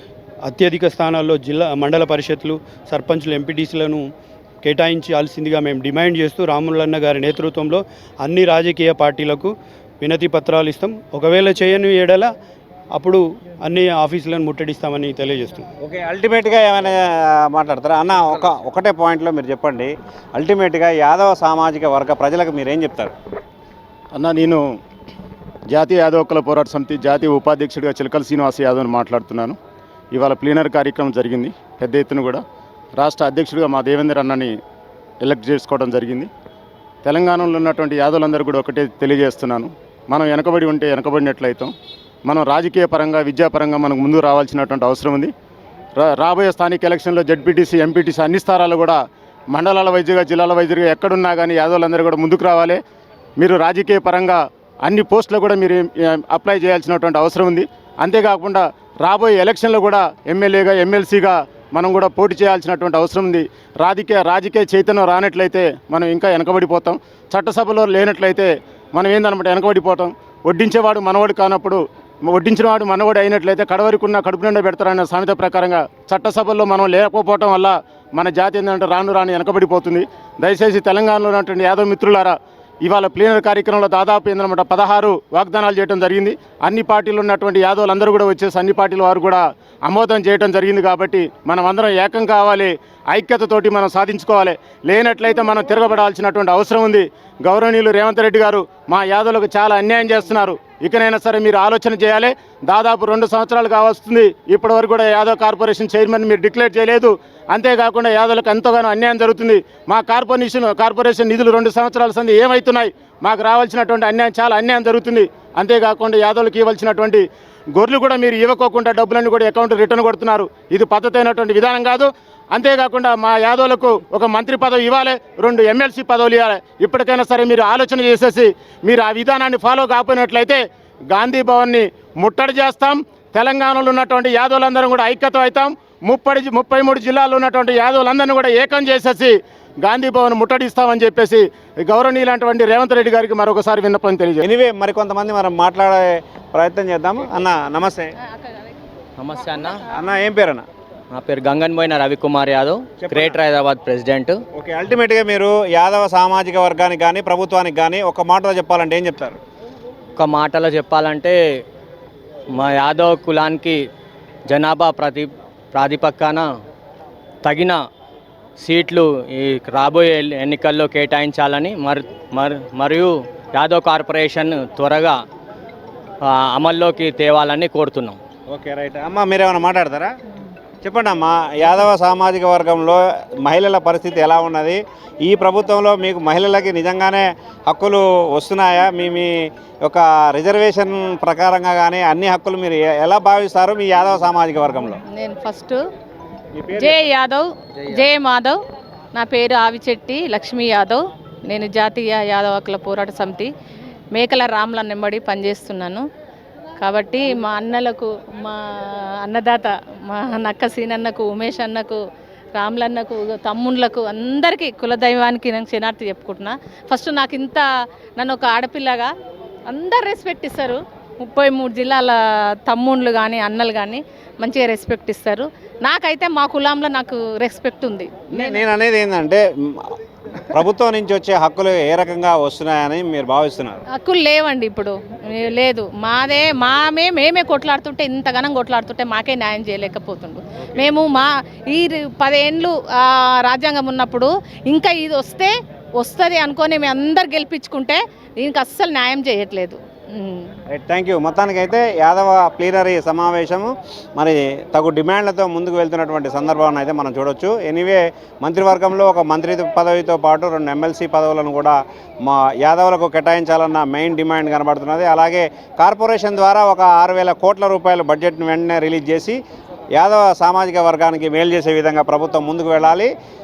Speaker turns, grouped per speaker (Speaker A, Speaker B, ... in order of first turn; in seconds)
Speaker A: 0.5-4.0, 4.6-12.3, 13.0-15.7
Speaker B: 15.8-23.1, 144.4-148.1, 149.9-150.7, 153.0-153.4, 154.6-159.4, 178.5-180.1, 180.8-195.0, 196.6-197.1, 228.3-229.9, 230.5-233.8, 250.7-269.4, 270.0-273.1
Speaker C: 24.1-24.6, 25.7-29.6, 30.1-32.4, 33.0-34.5, 35.2-36.3, 37.0-41.7, 42.3-45.3, 46.0-49.0, 49.5-52.8, 53.4-117.2, 117.8-144.4
Speaker D: 149.2-149.8, 151.1-154.4, 160.2-161.4, 162.6-163.8, 164.5-166.5, 167.4-167.8, 168.6-175.2, 176.3-178.2
Speaker E: 195.2-195.8, 196.7-198.6, 199.2-203.5, 204.1-206.0, 206.8-208.6, 209.2-212.0, 212.6-217.7, 218.2-219.1, 219.7-222.2, 222.7-228.6, 234.0-250.5